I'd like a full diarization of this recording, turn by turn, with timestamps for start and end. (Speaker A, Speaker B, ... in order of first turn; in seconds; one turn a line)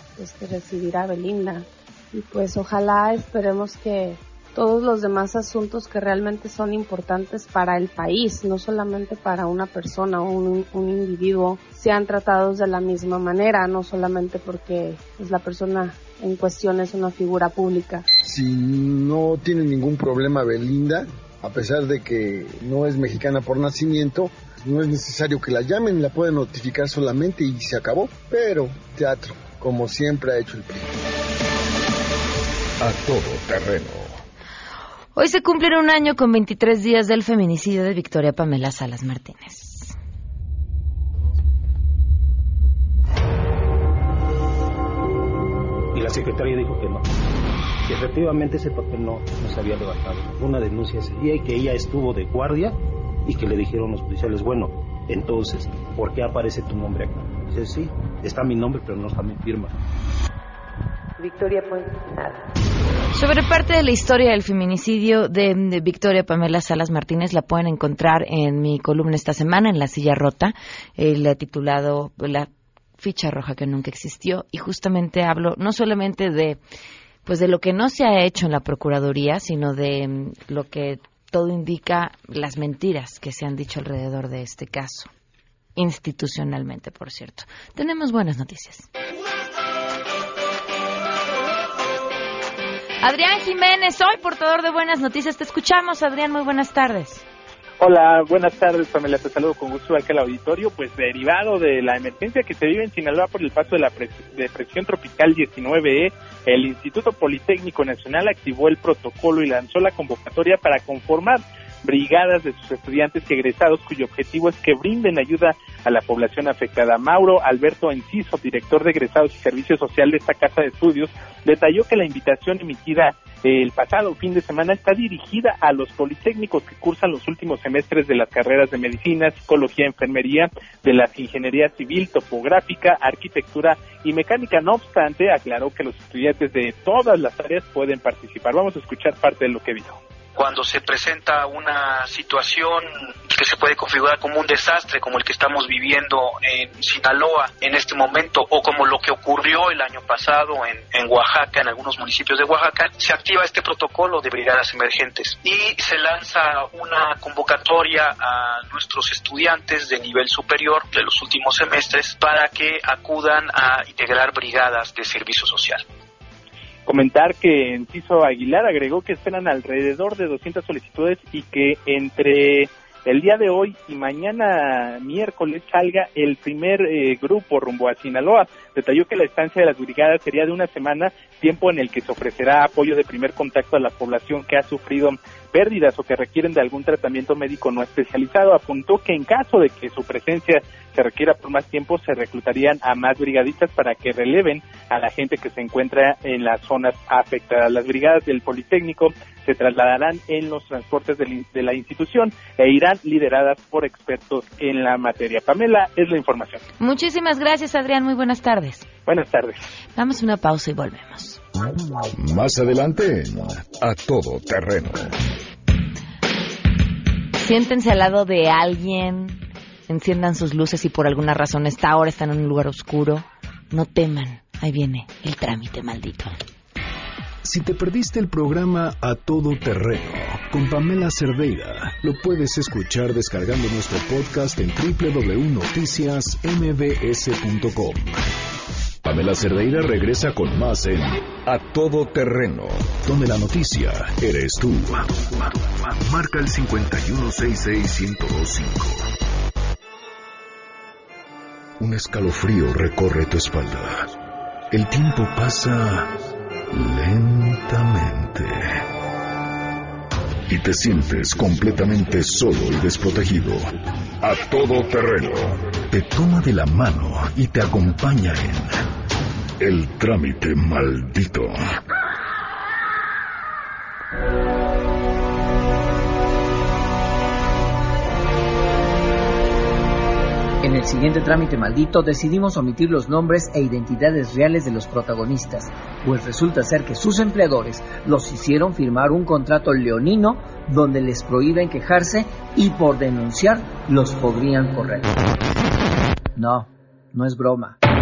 Speaker A: 0.2-18.1
Speaker B: 18.3-30.8
Speaker C: 32.8-34.2
Speaker D: 35.2-40.0
Speaker E: 45.9-47.1
Speaker E: 47.9-59.7
Speaker D: 61.2-62.3
Speaker D: 63.1-76.6
Speaker D: 77.3-85.1
Speaker D: 85.8-88.9
Speaker D: 93.0-97.2
Speaker F: 97.8-140.0
Speaker G: 140.3-165.8
Speaker F: 166.9-206.6
Speaker D: 206.8-208.9
Speaker F: 209.1-209.6
Speaker D: 210.0-211.4
Speaker C: 212.1-215.1
Speaker D: 217.4-226.3
Speaker C: 227.4-238.2
Speaker C: 239.0-249.1
Speaker C: 251.8-254.1
Speaker C: 254.7-256.2
Speaker C: 256.7-258.8
Speaker C: 260.5-263.7
Speaker C: 264.2-268.7
Speaker C: 269.6-271.6
Speaker H: 280.6-295.3
Speaker H: 296.4-297.8